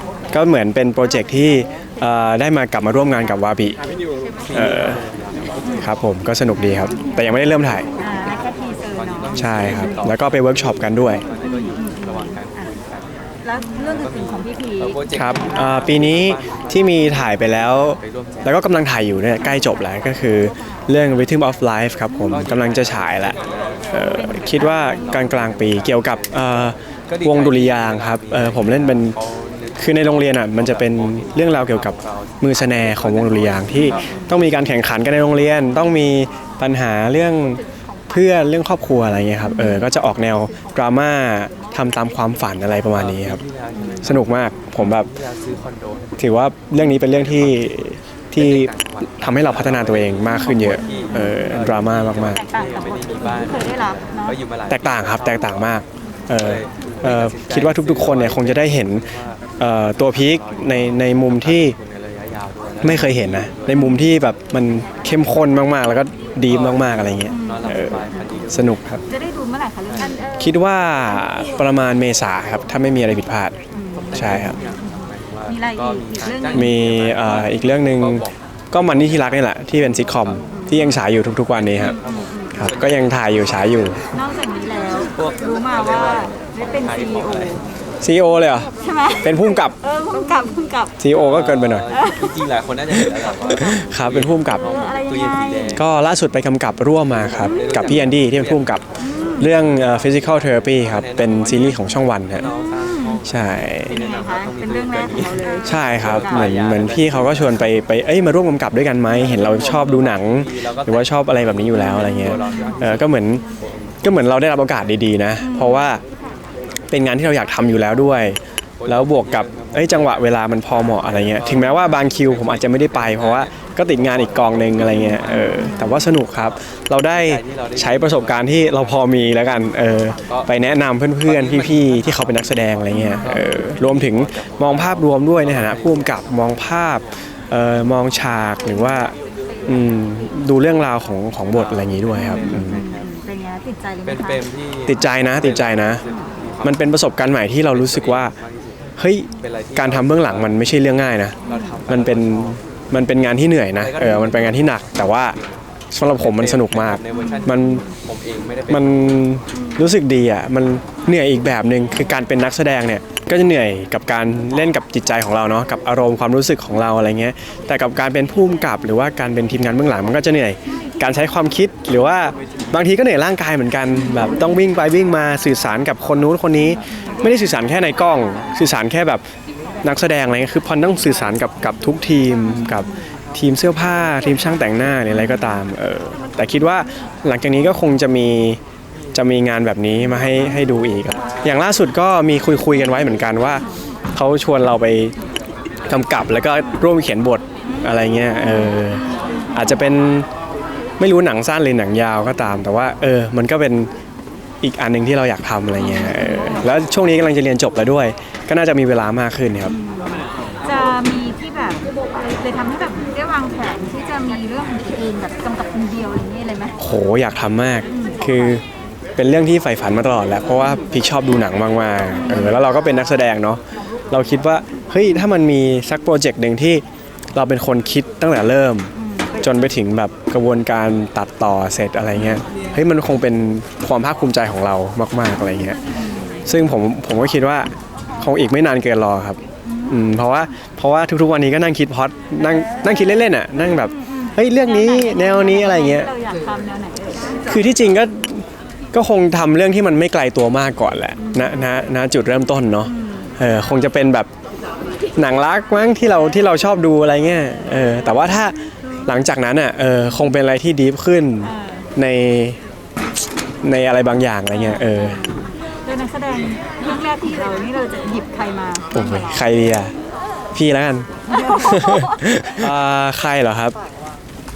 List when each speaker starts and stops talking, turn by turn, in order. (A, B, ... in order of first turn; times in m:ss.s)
0:00.3-0:03.8 A
0:04.5-0:05.0 A
0:05.8-0:07.9 A
0:08.0-0:09.9 B
0:09.3-0:11.2 A
0:11.4-0:12.6 B
0:13.4-0:15.0 B
0:15.1-0:15.4 C
0:15.1-0:23.4 A
0:23.9-0:29.2 A
0:28.1-0:28.8 C
0:29.8-0:43.4 A
0:43.9-0:44.1 B
0:44.0-0:45.1 A
0:46.2-0:52.4 A
0:50.6-0:50.8 B
0:52.2-0:52.5 C
0:52.3-0:54.4 B
0:54.7-0:59.1 A
0:57.2-0:58.4 C
0:59.6-1:01.8 A
1:02.8-1:09.0 A
1:07.3-1:07.7 B
1:09.1-1:10.4 B
1:10.4-1:13.5 A
1:13.8-1:14.6 B
1:14.1-1:14.6 A
1:15.4-1:16.7 B
1:16.2-1:17.2 C
1:16.5-1:22.0 A
1:21.8-1:22.7 B
1:22.5-1:24.0 A
1:24.1-1:27.6 B
1:28.0-1:28.7 A
1:28.8-1:29.3 B
1:29.2-1:29.8 A
1:29.8-1:30.9 B
1:31.0-1:31.9 A
1:32.4-1:34.2 C
1:33.5-1:34.7 A
1:34.6-1:35.8 B
1:35.7-1:42.5 A
1:39.0-1:39.5 B
1:42.7-1:43.2 B
1:43.2-1:44.0 A
1:43.8-1:46.3 B
1:45.6-1:53.4 A
1:46.6-1:46.9 C
1:52.3-1:52.7 B
1:54.0-1:56.0 A
1:56.9-2:19.1 A
2:19.7-2:22.8 A
2:22.2-2:24.4 B
2:24.9-2:26.0 A
2:26.6-2:28.3 A
2:29.0-2:35.4 A
2:35.9-2:37.8 A
2:37.3-2:37.8 B
2:38.7-2:59.2 A
2:59.8-3:08.6 A
3:09.1-3:15.1 A
3:15.9-3:20.3 A
3:21.0-3:23.9 A
3:24.6-3:29.7 A
3:25.9-3:26.6 B
3:29.7-3:36.8 B
3:36.8-3:38.6 A
3:37.9-3:38.2 B
3:39.2-3:55.8 A
3:42.2-3:42.6 B
3:56.4-4:06.1 A
4:03.9-4:07.4 B
4:07.5-4:14.3 A
4:15.2-4:22.6 A
4:23.6-4:25.2 A
4:24.8-4:29.2 B
4:28.9-4:29.9 A
4:30.5-4:33.7 A
4:31.4-4:32.0 B